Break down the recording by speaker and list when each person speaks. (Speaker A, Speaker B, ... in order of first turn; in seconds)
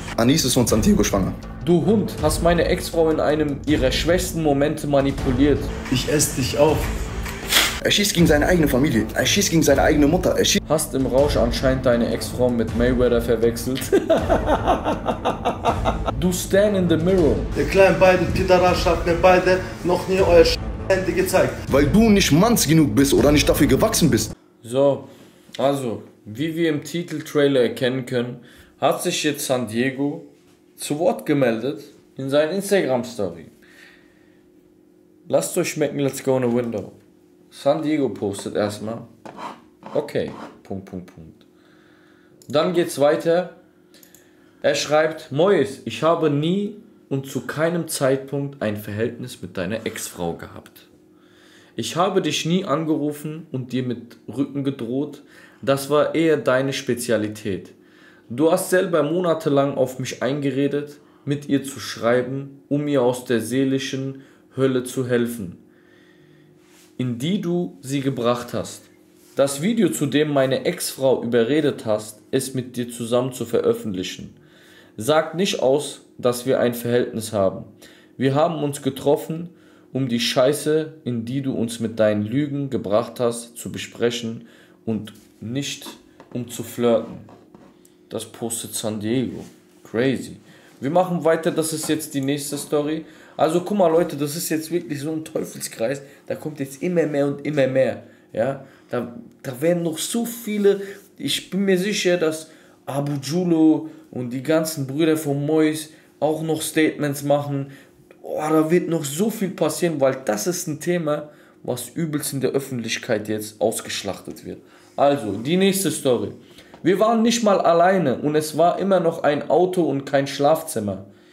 Speaker A: 0.2-1.4, 7.8-10.6, 21.7-24.3
Speaker B: 1.6-5.7, 10.7-15.5, 16.1-17.5, 24.6-33.5, 35.2-37.0, 37.5-39.1, 39.9-41.4, 42.5-43.5, 44.6-50.9, 51.8-57.7, 58.3-65.6, 67.0-74.3, 75.0-87.3, 88.1-121.1
Speaker C: 5.9-6.9, 17.6-21.6